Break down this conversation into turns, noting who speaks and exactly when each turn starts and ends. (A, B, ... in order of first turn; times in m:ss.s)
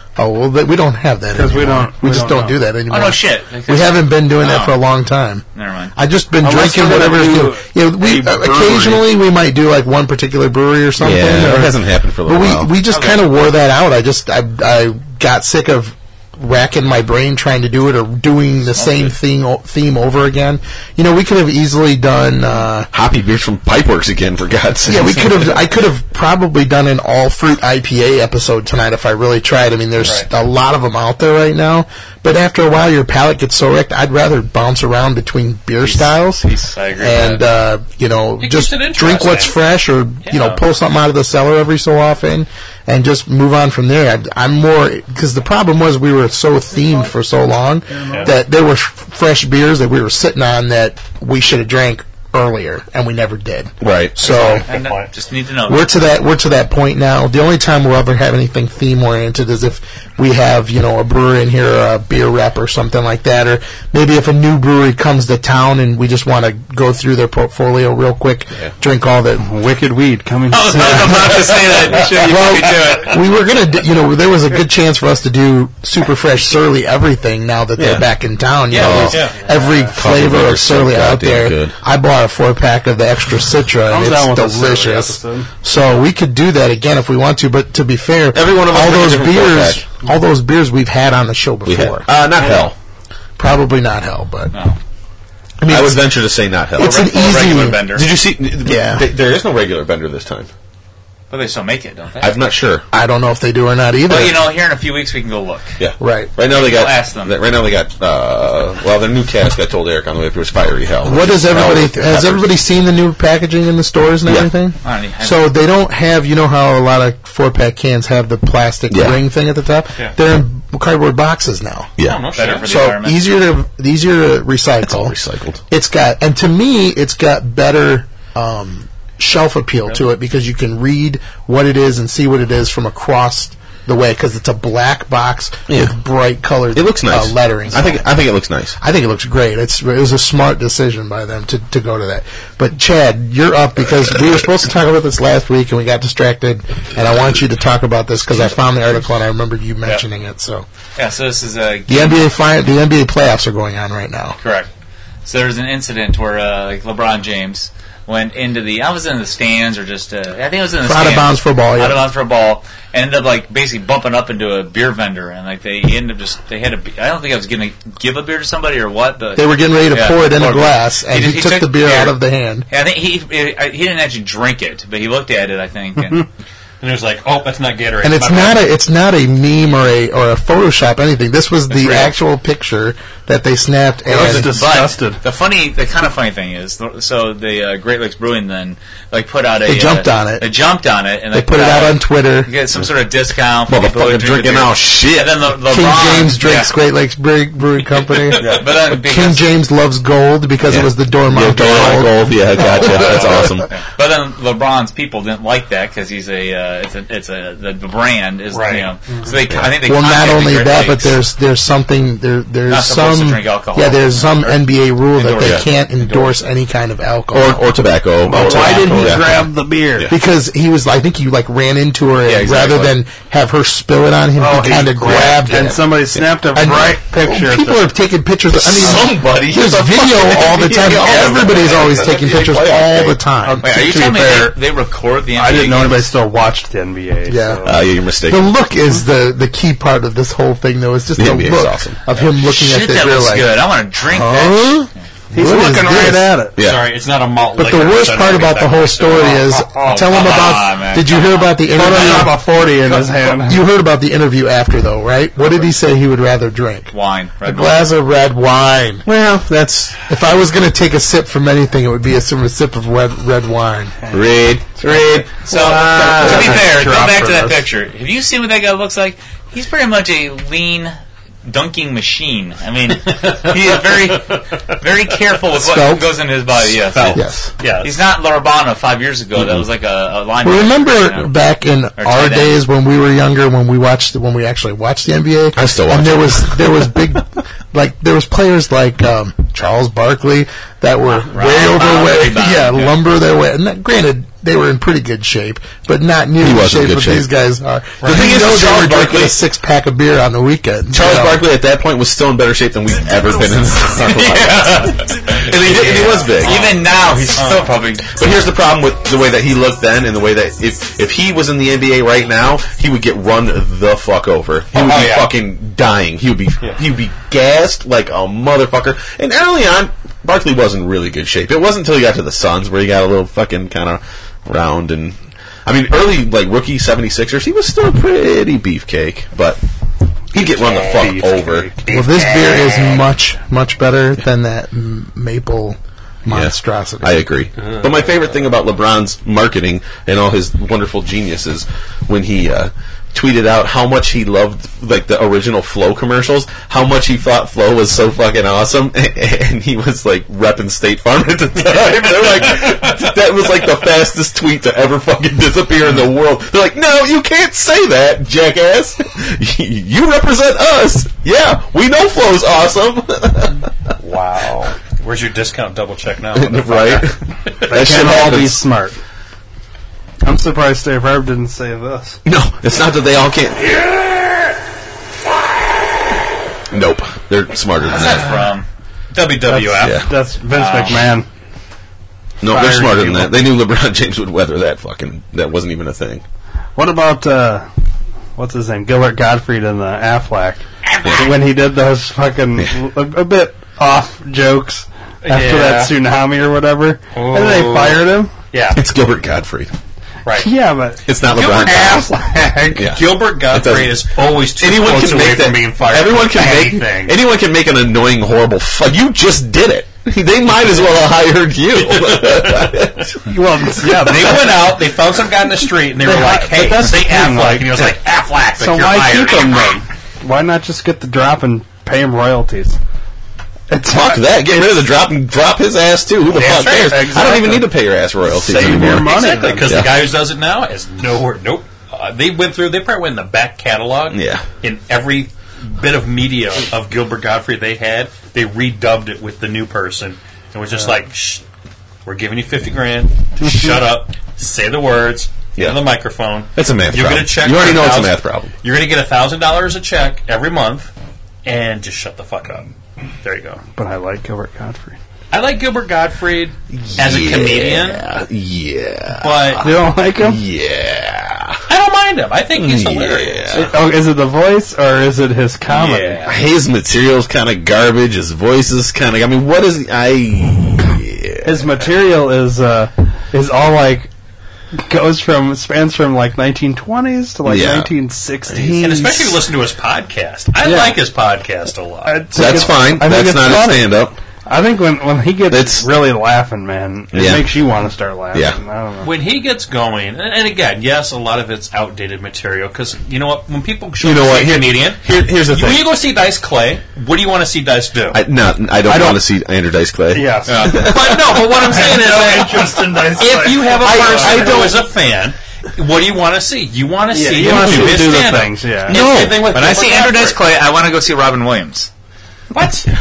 0:00.2-0:05.4 A
0:01.3-0:02.6 B
0:02.9-0:04.8 C
0:05.6-0:05.9 C
0:06.0-0:22.9 A
0:06.4-0:09.1 B
0:11.0-0:12.8 D
0:12.9-0:13.5 C
0:18.7-0:19.2 C
0:22.9-0:25.7 D
0:24.9-0:54.7 A
0:35.8-0:37.5 C
0:38.4-0:39.6 E
0:40.3-0:40.6 E
0:48.0-0:48.3 E
0:53.8-0:54.2 D
0:54.2-0:55.1 E
0:54.3-0:56.2 C
0:55.7-1:09.5 A
1:09.4-1:12.3 B
1:10.5-1:13.3 C
1:12.1-1:32.1 A
1:17.8-1:18.1 D
1:18.7-1:19.3 D
1:18.7-1:19.7 E
1:19.5-1:19.9 B
1:19.9-1:21.8 D
1:23.9-1:25.5 B
1:28.3-1:29.9 D
1:31.7-1:32.8 D
1:33.4-1:34.5 A
1:35.6-1:36.2 A
1:35.7-1:40.5 D
1:36.7-1:37.9 A
1:36.8-1:38.1 C
1:38.6-1:39.0 A
1:41.3-1:42.4 C
1:42.2-1:42.9 D
1:42.9-1:44.5 A
1:44.1-1:45.8 C
1:45.8-1:52.5 D
1:46.0-1:46.3 A
1:46.5-1:47.4 C
1:51.0-2:01.9 A
1:54.3-1:54.5 D
1:54.8-1:55.5 C
1:58.9-1:59.2 D
2:02.0-2:02.3 D
2:02.0-2:02.7 E
2:02.4-2:03.3 C
2:02.7-2:05.2 A
2:04.8-2:05.6 D
2:05.7-2:18.1 A
2:15.7-2:16.0 D
2:16.7-2:18.8 D
2:18.8-2:30.6 A
2:31.0-2:32.3 C
2:31.9-2:34.4 A
2:34.4-2:34.7 C
2:35.2-2:52.2 C
2:40.8-2:42.1 A
2:49.4-2:52.7 A
2:52.7-2:56.3 C
2:56.8-2:58.6 E
2:58.0-3:04.7 A
3:01.7-3:02.2 C
3:04.0-3:05.2 B
3:04.2-3:16.8 C
3:09.7-3:10.5 A
3:11.3-3:12.5 A
3:13.7-3:15.5 D
3:15.7-3:23.6 A
3:18.0-3:19.5 C
3:18.4-3:18.7 D
3:20.6-3:23.7 D
3:21.7-3:22.0 C
3:22.7-3:31.2 C
3:28.5-3:28.9 E
3:29.8-3:37.7 A
3:32.7-3:36.4 C
3:35.4-3:35.6 D
3:37.3-3:40.1 D
3:38.2-3:40.1 B
3:38.3-3:39.3 A
3:40.1-3:45.9 A
3:42.2-3:43.0 D
3:44.4-3:47.9 B
3:45.0-3:46.2 D
3:46.5-3:53.7 A
3:48.5-3:53.2 D
3:51.0-3:52.2 C
3:53.6-3:56.1 C
3:53.6-3:54.6 B
3:55.3-3:57.8 B
3:57.3-4:06.5 A
3:57.6-3:58.5 D
4:01.2-4:02.0 D
4:02.2-4:04.9 C
4:05.3-4:06.6 B
4:06.6-4:06.9 D
4:06.6-4:10.0 E
4:07.6-4:19.1 A
4:09.8-4:12.3 C
4:11.7-4:13.6 B
4:16.9-4:17.9 C
4:19.0-4:20.0 D
4:20.1-4:24.0 A
4:24.0-4:24.3 B
4:24.1-4:26.6 D
4:25.5-4:37.2 C
4:25.8-4:27.6 B
4:35.5-4:36.2 A
4:36.9-4:38.0 E
4:37.1-4:37.5 A
4:37.8-4:41.3 C
4:39.4-4:39.6 D
4:40.4-5:01.5 A
4:42.0-4:42.6 C
4:45.6-4:46.9 D
4:51.1-4:53.0 C
4:56.4-4:57.3 D
4:58.0-4:59.4 D
5:00.9-5:06.8 D
5:04.0-5:08.2 C
5:06.4-5:06.8 E
5:07.3-5:07.7 E
5:08.1-5:29.6 D
5:14.7-5:15.3 E
5:30.3-5:31.7 D
5:30.7-5:33.0 E
5:31.0-5:31.6 B
5:31.9-5:37.3 A
5:36.3-6:03.7 D
5:37.6-5:37.8 E
5:51.9-5:52.7 E
6:04.0-6:08.3 E
6:06.3-6:07.2 D
6:07.7-6:09.0 B
6:07.7-6:08.7 D
6:10.2-6:12.2 B
6:12.3-6:13.8 D
6:16.7-6:18.4 D
6:17.9-6:18.4 E
6:17.9-6:18.6 C
6:19.1-6:20.0 E
6:19.5-6:21.3 B
6:19.8-6:20.1 D
6:20.5-6:21.1 C
6:22.4-6:26.2 D
6:22.4-6:23.3 B
6:26.8-6:27.7 B
6:28.4-6:38.3 B
6:35.2-6:36.0 E
6:37.1-6:38.8 E
6:38.7-6:39.7 D
6:40.2-6:40.5 E
6:40.4-6:42.9 B
6:41.1-6:42.1 D
6:41.3-6:42.2 E
6:42.7-6:53.2 D
6:42.8-6:47.2 E
6:51.9-6:52.7 E
6:53.3-6:54.7 B
6:53.8-6:59.8 E
6:56.0-6:58.0 B
6:58.6-7:02.8 B
7:03.7-7:04.5 B
7:03.8-7:09.1 D
7:06.3-7:07.6 E
7:06.4-7:07.7 B
7:08.2-7:09.9 B
7:08.5-7:21.4 E
7:09.7-7:10.1 D
7:14.1-7:14.5 D
7:22.0-7:30.9 E
7:25.6-7:26.0 D
7:26.5-7:28.5 D
7:31.4-7:33.6 E
7:33.8-7:35.0 B
7:35.3-7:38.1 E
7:36.7-7:41.6 D
7:39.2-7:39.6 E
7:39.6-7:40.4 B
7:41.7-7:43.5 E
7:42.5-7:43.7 D
7:43.5-7:46.3 B
7:45.7-7:46.3 E
7:46.2-7:51.7 D
7:51.4-7:54.1 B
7:54.8-7:59.1 B
7:57.4-7:57.9 D
7:58.5-7:59.4 D
7:58.8-8:02.6 E
8:00.6-8:01.0 B
8:02.0-8:09.1 B
8:02.3-8:04.2 D
8:05.5-8:05.9 D
8:07.1-8:07.7 D
8:09.0-8:18.2 E
8:14.0-8:16.0 D
8:18.1-8:21.6 D
8:18.8-8:19.2 B
8:20.1-8:20.9 B
8:20.5-8:30.4 E
8:21.7-8:24.6 B
8:23.8-8:24.8 D
8:27.1-8:29.1 B
8:27.5-8:28.1 D
8:28.9-8:29.5 D
8:29.4-8:31.9 C
8:32.5-8:32.9 E